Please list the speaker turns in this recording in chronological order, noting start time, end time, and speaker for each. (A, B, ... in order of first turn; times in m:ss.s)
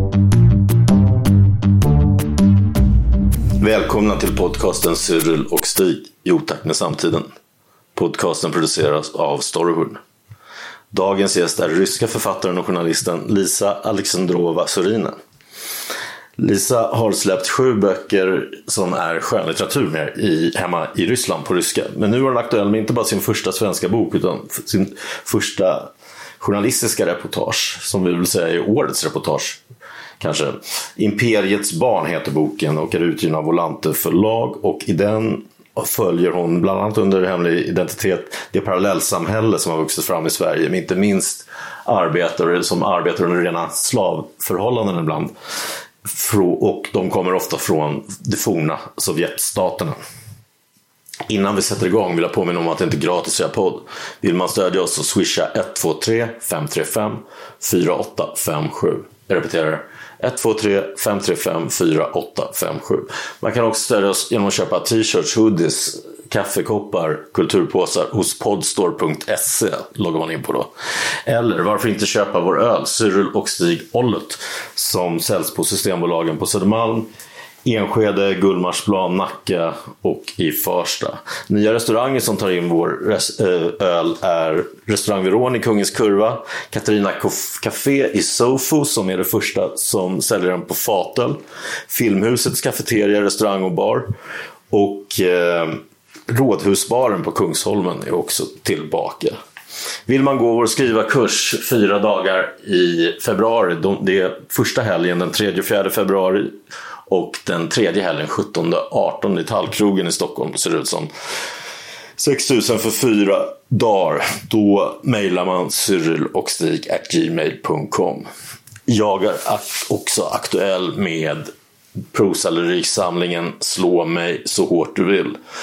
0:03.6-0:07.3 A
0:08.0-0:10.0 A
0:10.9-0:15.2 A
0:16.4-0:25.9 A
0:26.4-0:29.6 A
0:30.2-0:45.3 A
0:46.0-0:50.0 A
0:51.3-1:10.7 A
1:11.2-1:17.1 A
1:17.6-1:34.1 A
1:34.7-1:39.4 A
1:40.1-1:46.6 A
1:47.1-1:51.1 A
1:52.2-1:58.3 A
1:58.9-2:01.5 A
2:02.1-2:05.4 A